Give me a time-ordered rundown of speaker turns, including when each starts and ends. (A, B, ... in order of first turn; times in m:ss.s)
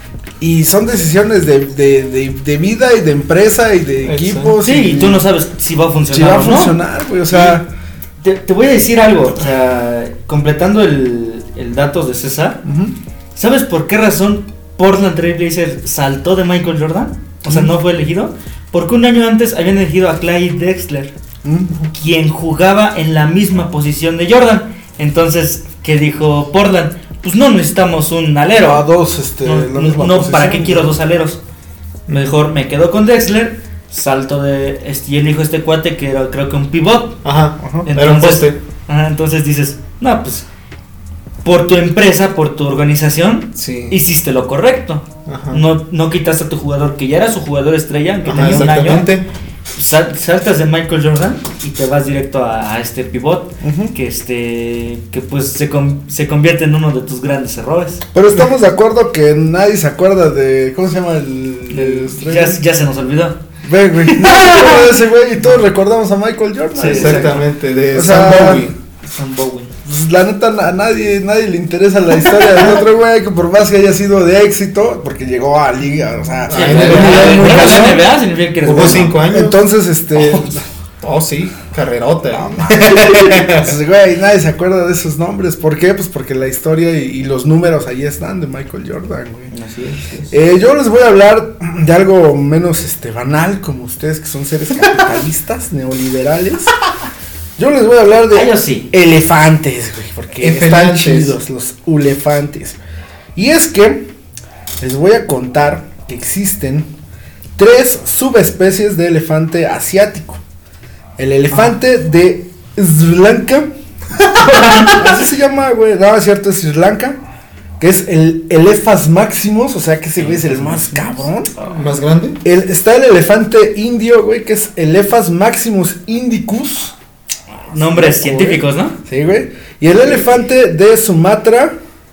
0:00.4-0:05.2 A
0:04.0-0:04.5 B
0:04.6-0:06.8 C
0:06.1-0:07.7 A
0:07.3-0:07.6 C
0:08.2-0:12.6 C
0:12.6-0:12.9 A
0:13.4-0:21.1 C
0:21.4-0:21.7 A
0:21.9-0:28.8 C
0:28.6-0:30.9 A
0:29.4-0:31.4 C
0:32.1-0:37.2 C
0:37.2-0:38.6 B
0:37.6-0:37.9 A
0:37.8-0:40.4 C
0:41.4-0:49.1 C
0:43.6-0:44.0 B
0:45.2-0:45.7 B
0:48.2-0:49.3 B
0:49.7-0:58.0 C
0:53.6-0:53.9 A
0:58.1-1:02.6 A
1:01.7-1:03.4 C
1:03.6-1:08.7 A
1:04.1-1:04.8 C
1:06.7-1:07.4 C
1:06.9-1:08.7 B
1:09.0-1:09.7 C
1:09.8-1:18.0 A
1:16.5-1:18.0 B
1:16.5-1:19.2 C
1:18.6-1:19.6 B
1:19.3-1:20.6 A
1:21.0-1:23.7 B
1:22.3-1:29.5 A
1:29.5-1:30.3 C
1:30.3-1:36.8 A
1:37.6-1:42.8 A
1:38.3-1:38.9 C
1:40.4-1:41.4 B
1:43.3-1:44.1 A
1:44.8-1:46.9 A
1:47.6-1:50.4 A
1:51.2-1:53.7 A
1:54.4-1:57.2 A
1:54.5-1:55.0 C
1:57.8-2:01.5 A
2:00.2-2:01.7 C
2:01.6-2:02.4 B
2:02.4-2:06.9 A
2:07.6-2:09.0 C
2:07.7-2:11.8 A